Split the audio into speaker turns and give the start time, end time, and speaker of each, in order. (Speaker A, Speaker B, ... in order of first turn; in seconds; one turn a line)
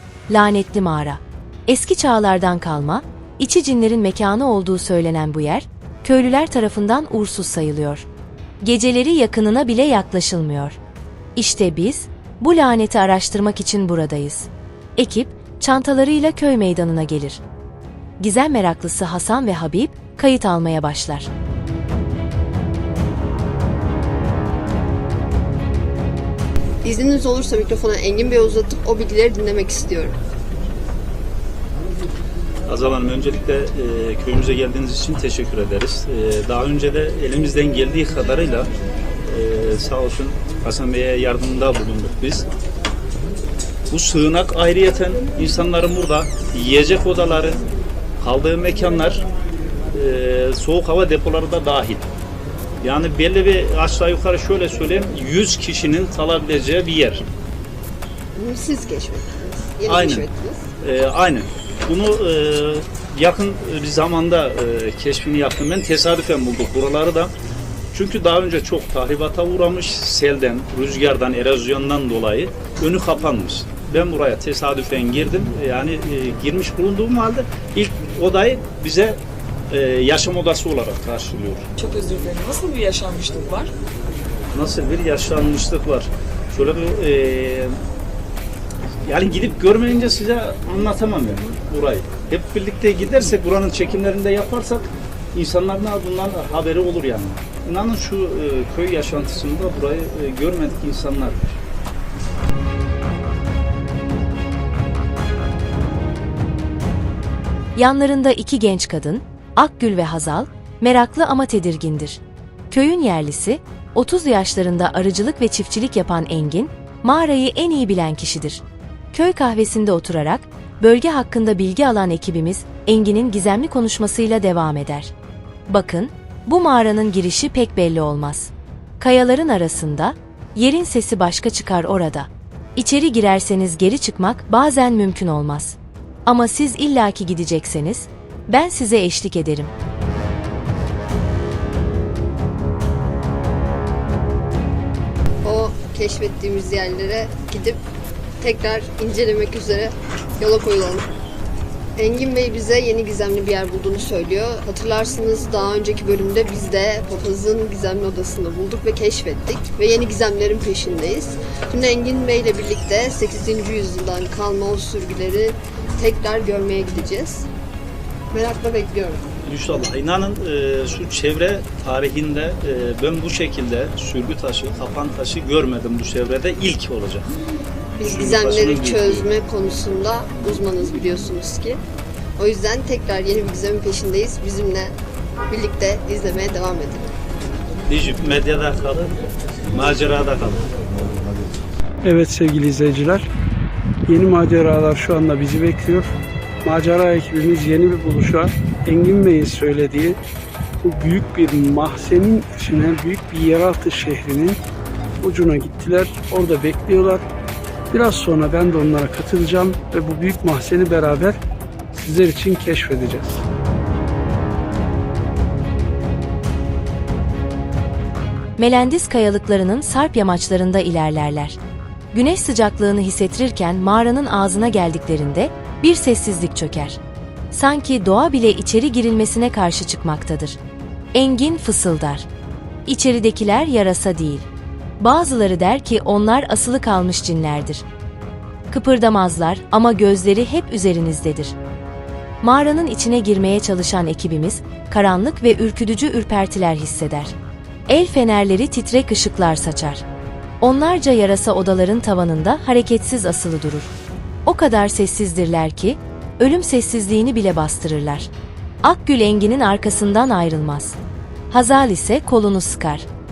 Speaker A: 0.3-8.1
Speaker A: 8.6-10.8
Speaker A: 11.4-17.4
Speaker A: 18.2-21.3
Speaker B: 26.8-30.2
Speaker C: 32.7-38.7
Speaker C: 39.2-42.5
Speaker C: 43.9-47.6
Speaker C: 48.2-49.3
Speaker C: 49.9-52.1
Speaker C: 52.8-57.3
Speaker B: 58.4-60.7
Speaker C: 59.9-60.3
Speaker C: 60.8-67.3
Speaker C: 67.9-81.7
Speaker D: 81.8-83.7
Speaker C: 84.5-87.8
Speaker C: 89.0-101.5
Speaker A: 107.8-118.6
Speaker A: 119.1-125.1
Speaker A: 125.7-139.7
Speaker B: 145.4-147.8
Speaker B: 148.4-151.1
Speaker B: 152.0-167.5
Speaker B: 168.3-169.3
Speaker C: 169.4-177.3
Speaker B: 178.0-181.8
Speaker C: 178.0-179.3
Speaker B: 182.4-184.9
Speaker B: 185.5-187.1
Speaker C: 187.9-189.2
Speaker C: 189.7-190.7
Speaker E: 192.0-193.3
Speaker E: 194.1-200.2
Speaker E: 200.8-204.6
Speaker E: 205.2-207.2
Speaker E: 207.9-211.4
Speaker E: 211.9-213.4
Speaker A: 218.6-221.6
Speaker A: 222.1-227.0
Speaker A: 227.5-230.6
Speaker A: 231.1-232.3
Speaker A: 232.9-234.5
Speaker A: 235.0-237.8
Speaker A: 238.7-241.6
Speaker A: 242.4-247.3
Speaker A: 247.9-250.0
Speaker A: 250.6-253.9
Speaker A: 254.5-258.3
Speaker A: 258.8-261.0
Speaker A: 261.5-263.1